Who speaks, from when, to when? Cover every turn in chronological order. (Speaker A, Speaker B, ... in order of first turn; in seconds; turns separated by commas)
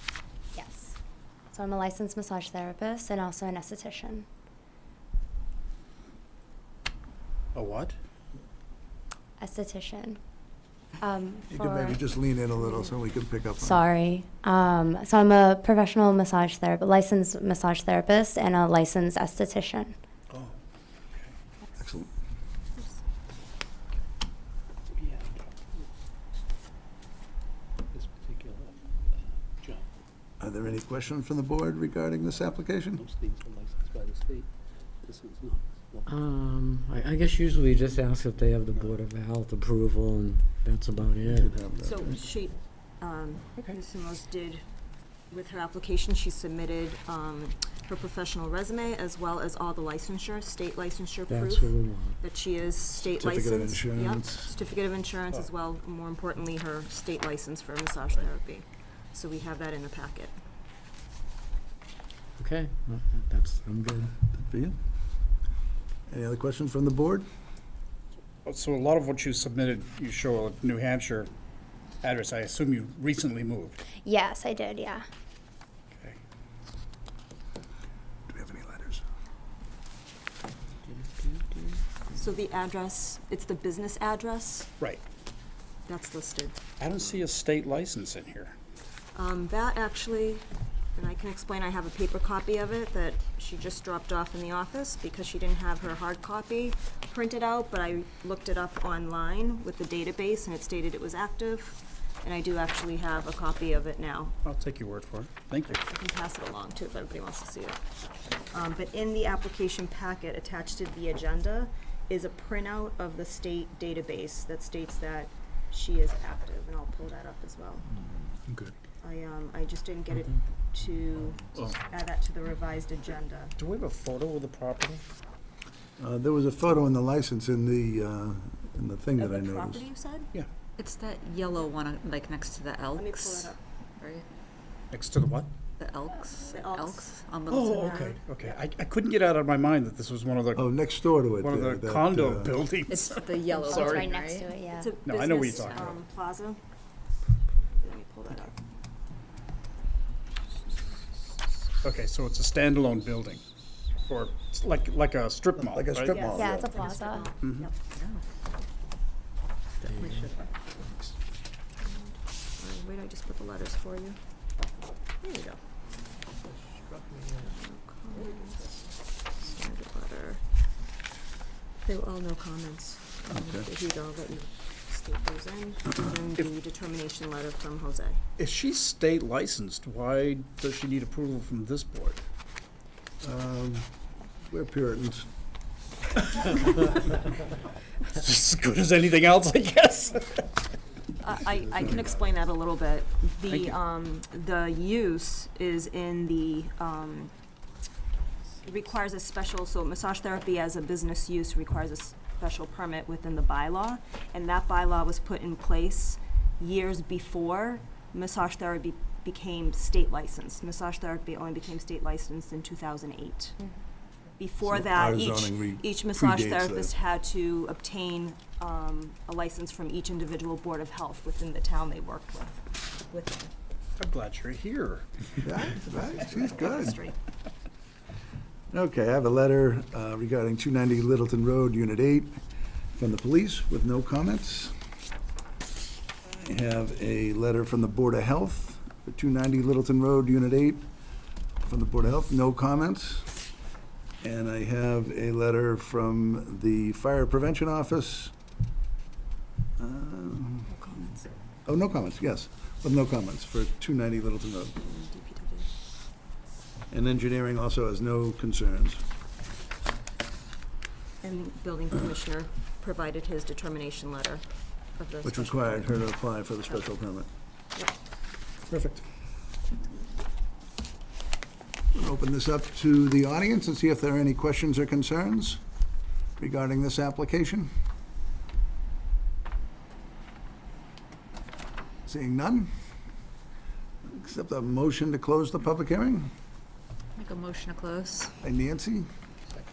Speaker A: 0.5-0.9, Speaker A: 1.5-4.3, Speaker B: 7.5-8.0, Speaker A: 9.4-10.2, Speaker A: 11.0-12.0, Speaker C: 11.5-13.8, Speaker A: 13.6-20.0, Speaker B: 20.3-20.6, Speaker C: 21.8-22.1, Speaker D: 24.9-25.9, Speaker D: 27.9-29.9, Speaker C: 30.4-33.0, Speaker D: 32.9-34.5, Speaker D: 35.0-36.3, Speaker E: 36.1-41.5, Speaker C: 41.2-42.1, Speaker F: 41.8-44.6, Speaker F: 45.3-60.4, Speaker E: 51.3-52.2, Speaker C: 53.0-54.5, Speaker E: 62.4-64.2, Speaker C: 64.3-64.8, Speaker C: 66.1-67.2, Speaker B: 68.5-71.3, Speaker B: 72.0-73.8, Speaker A: 74.0-75.0, Speaker C: 78.3-79.0, Speaker E: 81.2-81.6, Speaker F: 82.2-84.7, Speaker F: 85.9-86.6, Speaker B: 86.8-88.5, Speaker F: 89.1-90.4, Speaker F: 91.0-104.3, Speaker B: 104.5-105.8, Speaker F: 105.7-107.8, Speaker F: 108.5-117.9, Speaker F: 119.0-123.5, Speaker B: 123.6-125.0, Speaker C: 126.0-129.9, Speaker F: 129.2-130.3, Speaker G: 130.8-134.3, Speaker F: 132.9-133.6, Speaker B: 134.9-135.5, Speaker G: 135.8-138.1, Speaker F: 136.5-137.1, Speaker B: 137.5-140.7, Speaker F: 137.7-138.5, Speaker C: 140.6-142.6, Speaker B: 141.4-144.1, Speaker G: 142.9-144.5, Speaker A: 143.6-145.0, Speaker F: 144.7-146.6, Speaker B: 145.0-146.0, Speaker F: 147.8-148.6, Speaker B: 151.8-153.4, Speaker B: 154.1-156.3, Speaker C: 155.6-156.9, Speaker F: 156.1-157.8, Speaker A: 156.3-157.3, Speaker B: 157.4-157.7, Speaker G: 157.9-158.2, Speaker F: 159.8-160.5, Speaker F: 161.8-164.2, Speaker F: 165.2-165.6, Speaker F: 167.4-168.8, Speaker F: 169.3-170.4, Speaker F: 171.8-178.2, Speaker C: 173.3-173.7, Speaker B: 178.4-182.2, Speaker C: 183.2-183.9, Speaker C: 184.5-185.3, Speaker B: 188.1-190.5, Speaker F: 191.2-197.3, Speaker F: 198.6-213.6, Speaker F: 214.4-222.6, Speaker C: 214.6-216.9, Speaker F: 223.1-223.5, Speaker B: 224.0-225.5, Speaker C: 225.4-227.0, Speaker F: 225.8-227.2, Speaker C: 228.7-232.3, Speaker C: 232.9-234.7, Speaker C: 236.3-240.9, Speaker C: 241.7-243.3, Speaker C: 244.2-248.3, Speaker C: 249.8-250.9, Speaker F: 250.7-251.3, Speaker C: 251.7-254.8, Speaker F: 254.8-255.7, Speaker C: 256.9-259.0, Speaker F: 261.2-264.4, Speaker F: 265.0-266.1, Speaker C: 265.2-267.3, Speaker C: 268.7-269.0, Speaker C: 271.9-275.6, Speaker C: 276.4-277.7, Speaker C: 282.1-282.7, Speaker C: 284.1-286.3, Speaker G: 287.2-288.3, Speaker C: 288.4-289.1